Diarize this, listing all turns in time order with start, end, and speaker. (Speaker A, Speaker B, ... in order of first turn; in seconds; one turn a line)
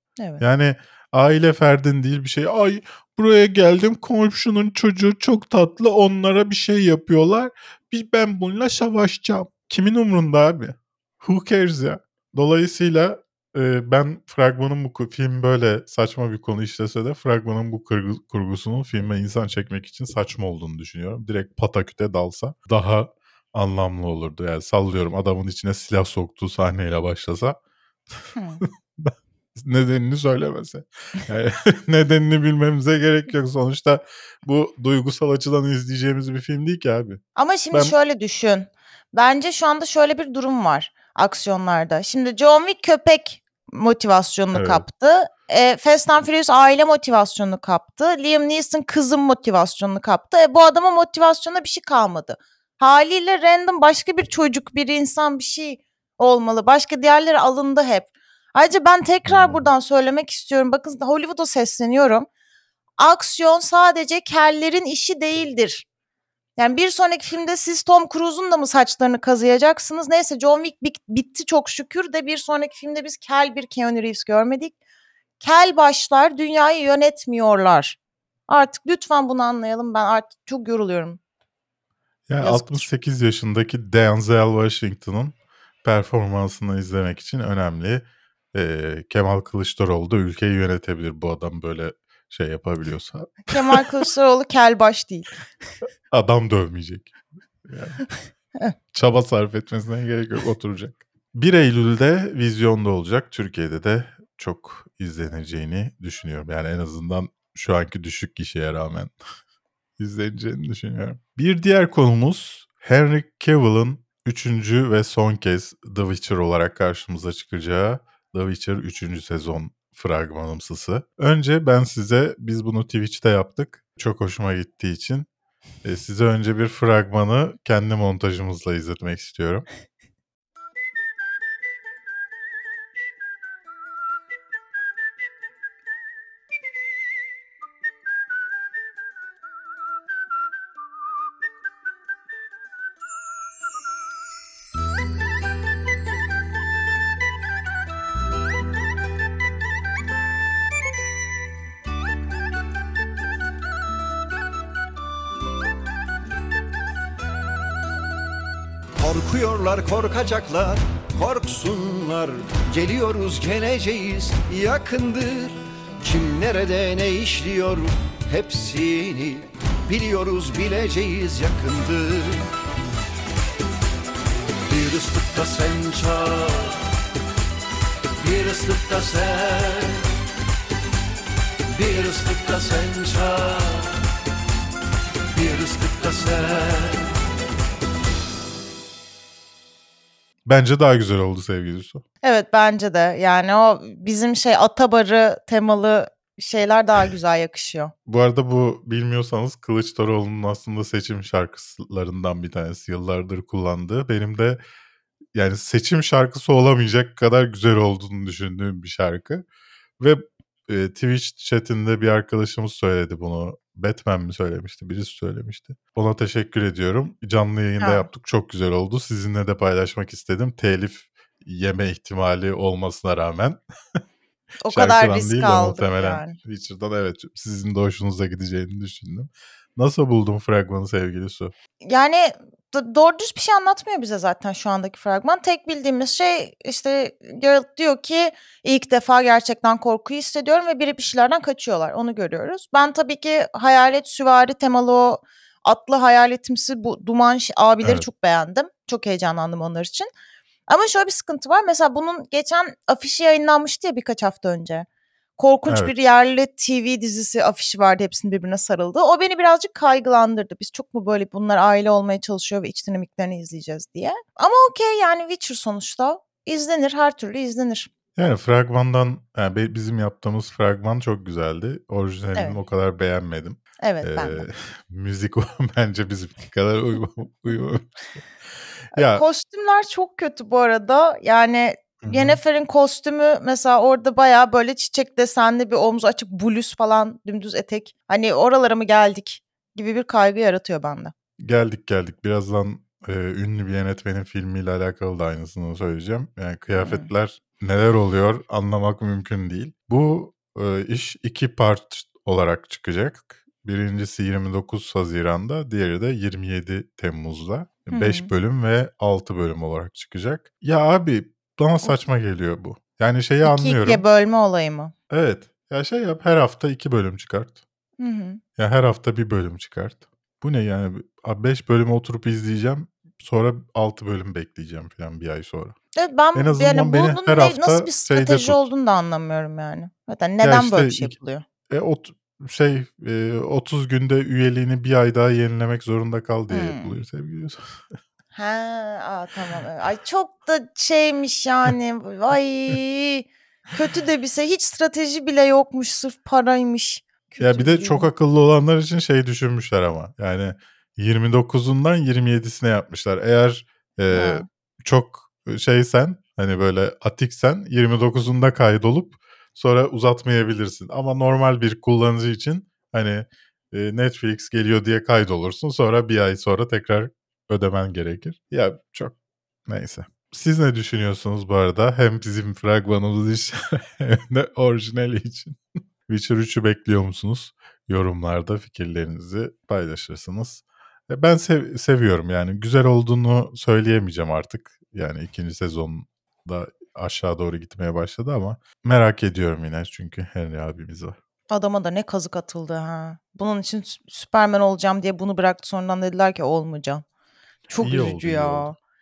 Speaker A: 0.4-27.6
Speaker B: 28.4-28.6
Speaker A: 28.6-37.2
Speaker B: 37.4-62.3
Speaker A: 44.5-44.8
Speaker A: 59.3-59.7
Speaker B: 63.0-65.9
Speaker B: 66.6-74.8
Speaker B: 75.4-81.2
Speaker A: 82.3-93.8
Speaker B: 82.4-82.9
Speaker B: 93.5-95.3
Speaker A: 96.1-97.1
Speaker A: 97.7-98.0
Speaker A: 98.9-109.1
Speaker A: 110.0-125.3
Speaker A: 125.8-129.7
Speaker C: 159.0-172.5
Speaker C: 174.7-176.9
Speaker C: 178.2-180.1
Speaker C: 181.8-183.9
Speaker C: 185.3-187.1
Speaker A: 190.5-192.0
Speaker B: 192.2-197.9
Speaker A: 198.1-204.6
Speaker A: 205.3-209.4
Speaker A: 210.0-223.6
Speaker B: 217.8-218.1
Speaker B: 224.6-226.4
Speaker A: 224.7-231.5
Speaker B: 231.8-250.1
Speaker B: 250.7-254.9
Speaker B: 255.4-267.9
Speaker A: 255.7-255.9
Speaker A: 268.1-278.0
Speaker B: 273.8-274.5
Speaker A: 278.9-279.2
Speaker B: 279.0-291.1
Speaker A: 282.0-282.4
Speaker A: 291.4-314.0
Speaker B: 296.8-297.1
Speaker B: 307.9-308.3
Speaker B: 313.4-314.9
Speaker A: 315.1-317.6
Speaker B: 318.0-318.4
Speaker A: 318.6-325.8
Speaker B: 326.0-331.4
Speaker A: 326.4-328.7
Speaker A: 330.4-331.1
Speaker A: 331.7-337.6
Speaker B: 336.5-336.9
Speaker B: 338.3-348.1
Speaker A: 347.4-369.1
Speaker B: 354.1-354.5
Speaker A: 369.7-391.1
Speaker B: 391.5-397.0
Speaker B: 397.7-398.8
Speaker A: 397.8-398.7